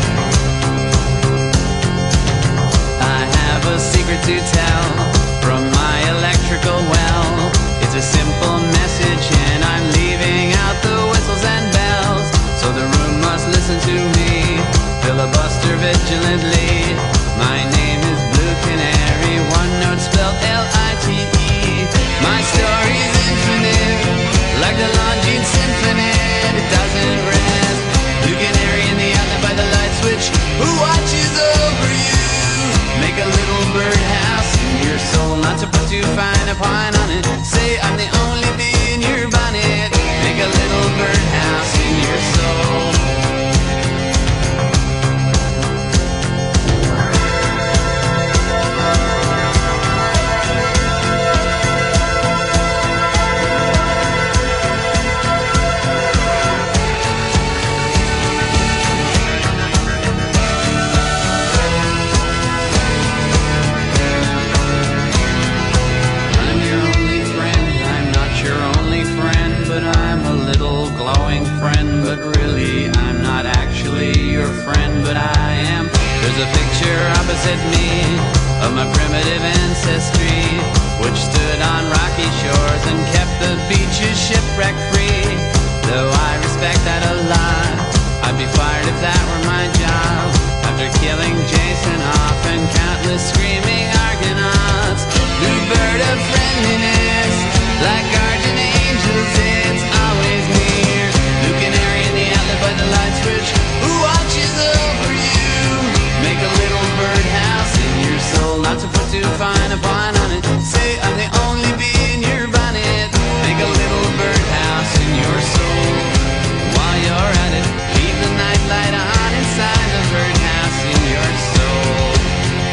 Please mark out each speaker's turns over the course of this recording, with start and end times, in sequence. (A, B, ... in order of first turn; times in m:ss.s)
0:03.0-0:43.1 A
1:06.3-2:02.3 A